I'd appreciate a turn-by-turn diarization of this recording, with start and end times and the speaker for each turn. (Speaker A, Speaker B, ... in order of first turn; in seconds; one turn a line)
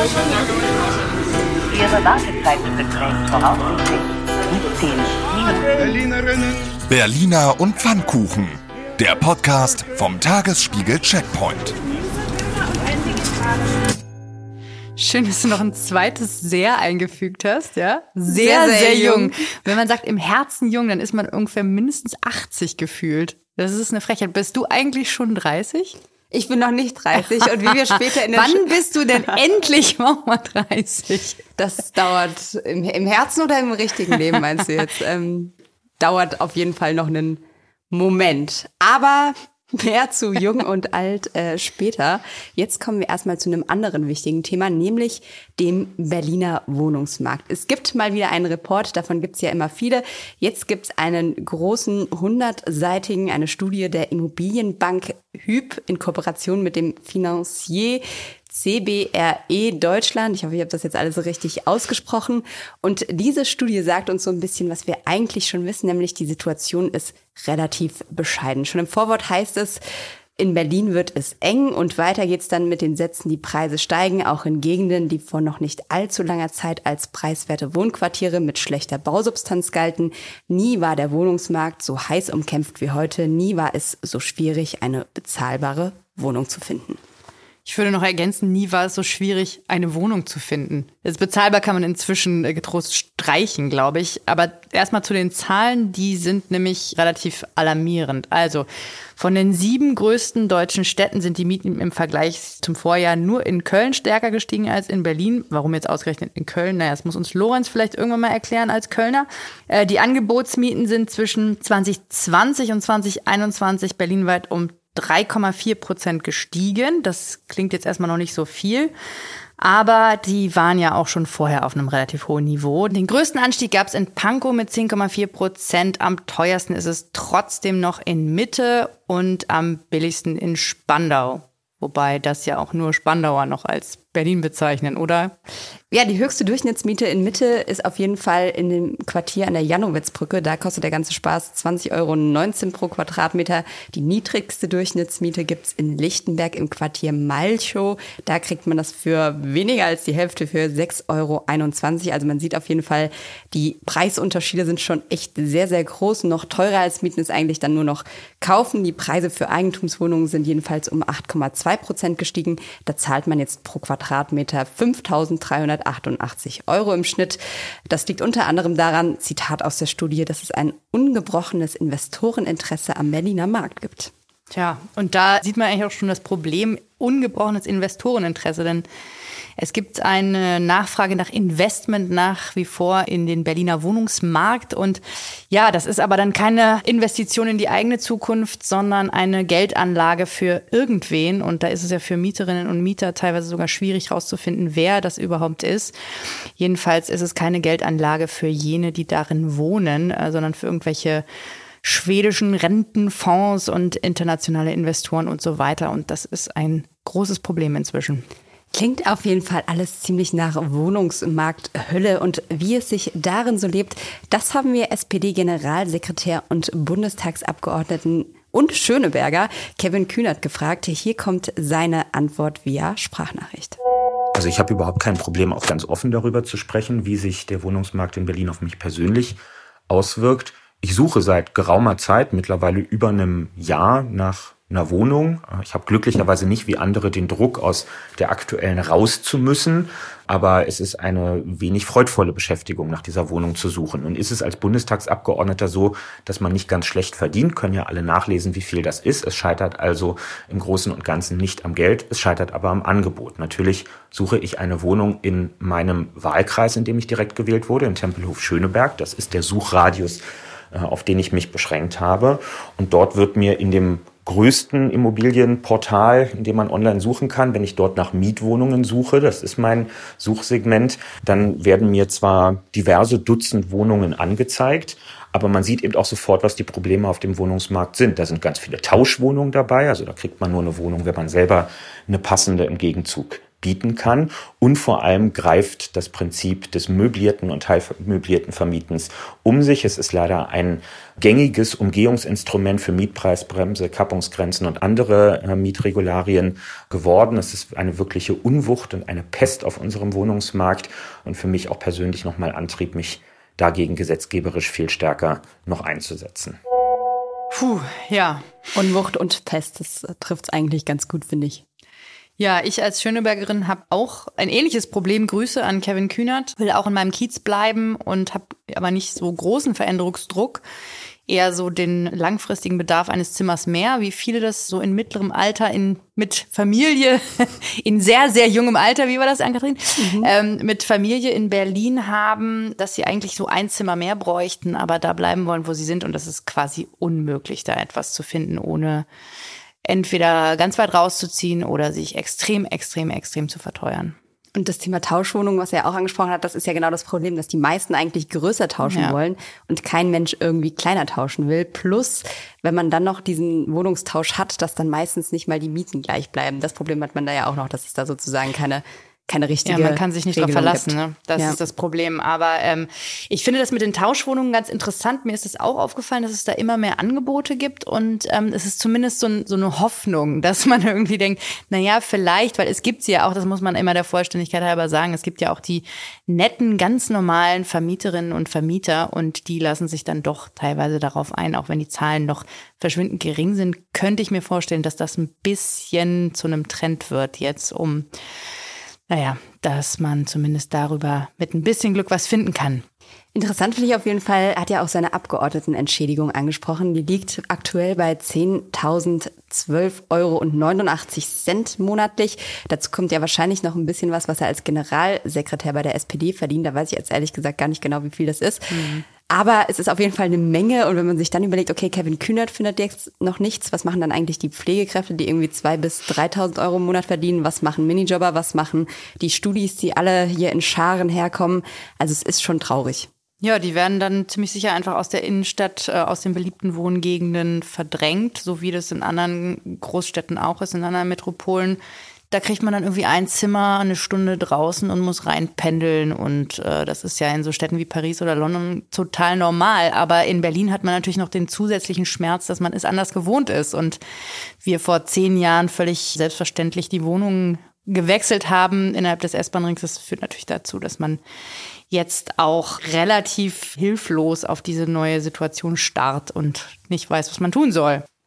Speaker A: 1.7-5.9
Speaker B: 6.9-11.8
Speaker C: 15.0-25.9
Speaker D: 18.3-19.3
Speaker D: 26.3-29.4
Speaker C: 28.3-31.1
Speaker D: 31.1-69.8
Speaker D: 70.4-87.0
Speaker C: 87.7-118.9
Speaker C: 119.6-135.3
Speaker D: 135.9-174.1
Speaker C: 174.5-178.8
Speaker C: 179.6-195.9
Speaker C: 196.6-201.2
Speaker C: 201.8-208.3
Speaker D: 208.7-223.8
Speaker E: 224.3-229.4
Speaker E: 229.9-306.6
Speaker C: 307.5-308.5
Speaker D: 308.7-311.6
Speaker C: 312.4-320.6
Speaker C: 321.3-339.1
Speaker D: 330.0-330.3
Speaker C: 339.9-344.2
Speaker D: 344.6-361.6
Speaker C: 348.9-349.2
Speaker C: 359.6-388.1
Speaker C: 389.1-392.8
Speaker D: 393.4-423.1
Speaker C: 408.7-409.0
Speaker C: 423.4-431.8
Speaker C: 432.3-444.0
Speaker C: 444.6-451.2
Speaker C: 451.9-458.0